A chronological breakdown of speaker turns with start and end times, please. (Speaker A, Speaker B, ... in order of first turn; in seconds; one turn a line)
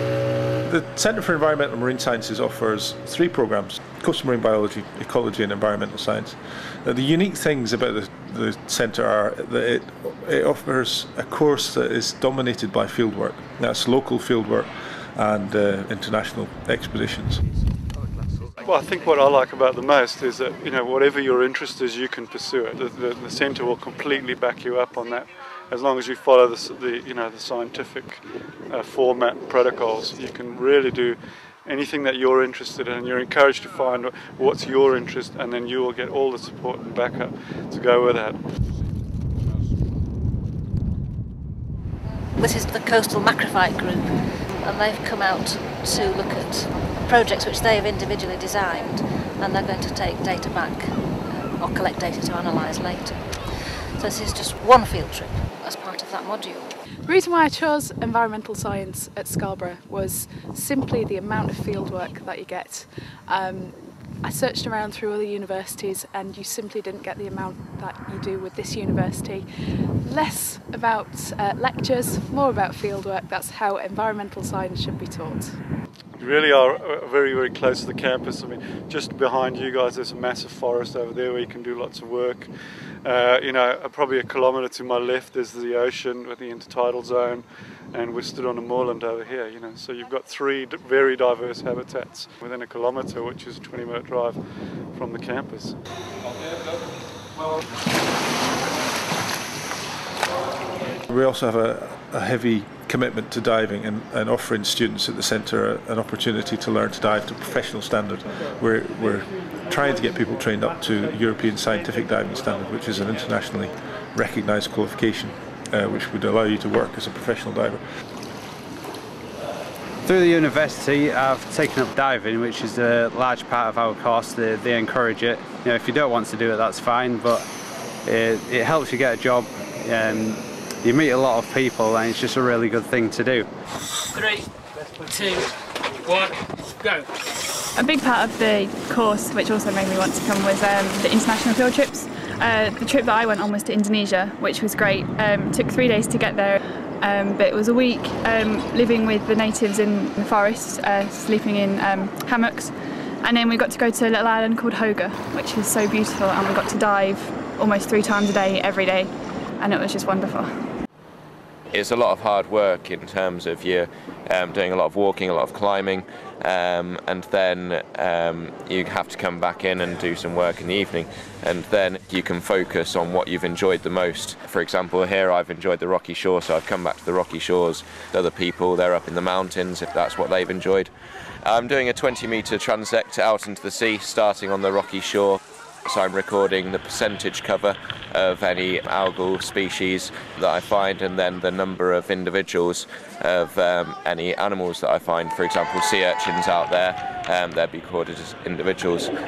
Speaker A: 0.6-17.4
Speaker B: 18.6-38.4
Speaker C: 42.4-56.7
Speaker D: 57.1-69.5
Speaker D: 70.0-75.6
Speaker B: 76.2-82.5
Speaker B: 83.0-95.8
Speaker A: 101.1-117.8
Speaker E: 120.0-127.5
Speaker E: 128.1-133.5
Speaker F: 134.1-137.1
Speaker G: 137.8-160.5
Speaker H: 161.7-180.9
Speaker H: 181.4-199.1